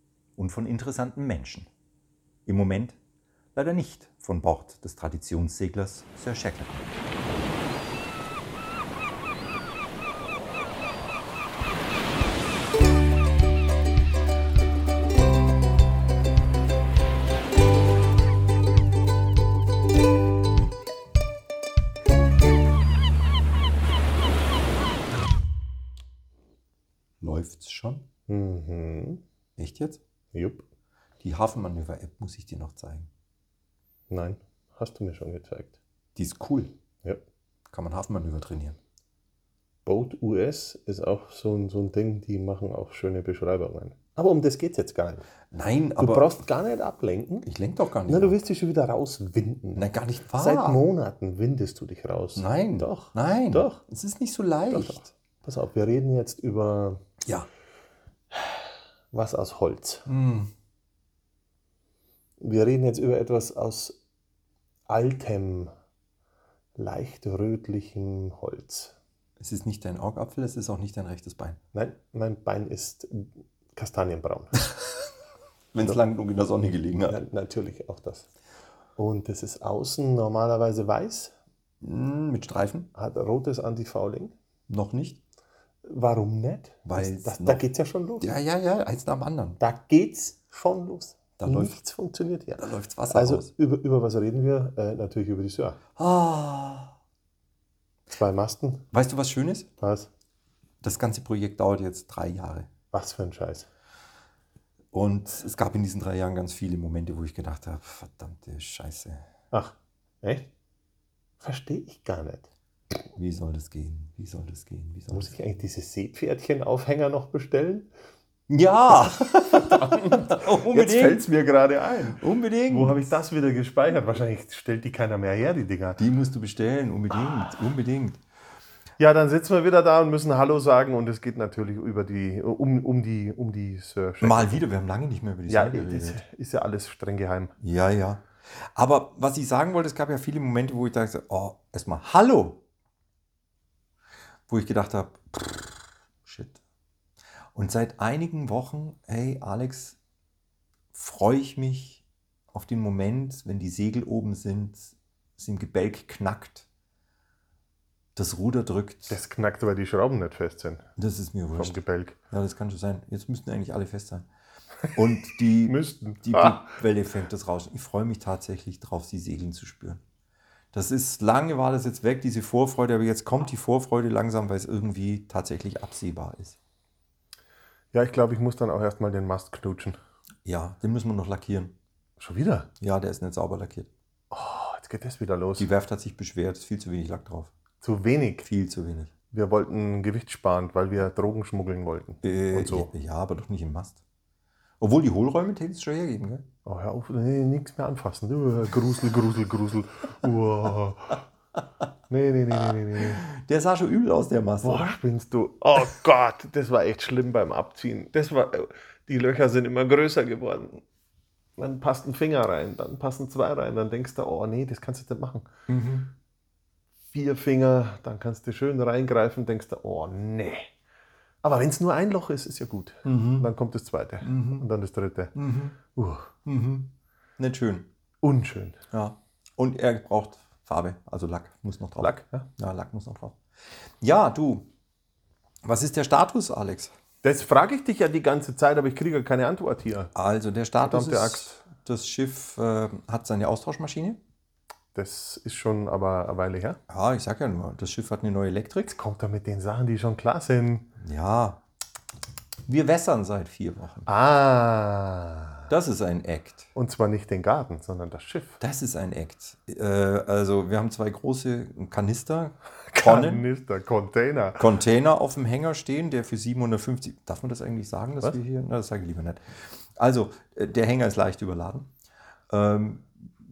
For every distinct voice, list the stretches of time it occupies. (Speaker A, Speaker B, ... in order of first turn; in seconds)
Speaker A: 0.4-1.7, 2.5-3.0, 3.5-6.9, 27.2-28.0, 29.6-30.0, 31.2-33.1, 36.1-36.7, 37.7-38.8, 45.5-46.3, 47.4-48.4, 49.8-50.8, 52.4-55.1, 57.2-57.5, 60.1-60.5, 69.4-71.6, 75.7-77.2, 81.8-82.9, 84.7-85.2, 86.8-87.6, 88.2-89.6, 91.4-91.8, 92.6-93.5, 96.0-96.9, 98.9-99.7, 100.8-102.7, 104.9-109.2, 113.1-115.3, 118.5-121.2, 122.2-123.0, 126.0-128.2, 134.2-136.2, 137.6-142.6, 144.5-146.6, 147.5-150.0, 150.9-156.7, 158.2-159.2, 161.0-164.3, 164.9-170.0, 170.7-176.6, 180.4-181.7, 182.8-183.9, 185.6-187.5, 188.4-189.1, 192.2-194.0, 194.8-196.4, 202.9-204.9, 215.7-216.1, 223.0-223.5, 224.2-224.7, 225.3-225.8, 226.4-227.9, 228.9-233.4, 234.0-234.7, 235.6-236.9, 240.1-244.2, 246.9-248.9, 251.0-251.6, 252.7-254.1, 255.7-256.7, 258.6-263.4, 264.6-271.9, 272.5-273.3
Speaker B: 28.3-29.2, 30.3-30.6, 34.1-35.8, 39.9-45.2, 46.0-47.5, 48.1-53.8, 54.7-57.0, 58.3-60.0, 62.4-64.0, 64.9-65.7, 66.8-69.0, 71.7-74.7, 77.1-78.3, 79.0-81.3, 82.9-84.3, 85.8-88.3, 89.6-95.8, 98.1-98.8, 99.8-100.1, 102.9-103.7, 109.5-110.5, 111.4-112.5, 115.1-117.9, 119.4-126.0, 129.0-134.6, 135.5-137.5, 159.1-160.9, 161.5-162.2, 165.7-166.6, 177.9-180.0, 182.2-182.7, 184.3-185.7, 187.8-188.5, 189.3-192.9, 196.6-201.2, 202.1-203.2, 204.6-210.8, 211.6-215.5, 217.1-220.7, 221.4-226.3, 228.2-228.8, 232.0-232.5, 237.2-240.1, 240.8-241.5, 244.9-246.8, 248.9-250.9, 254.1-255.7, 256.7-258.6, 262.9-264.6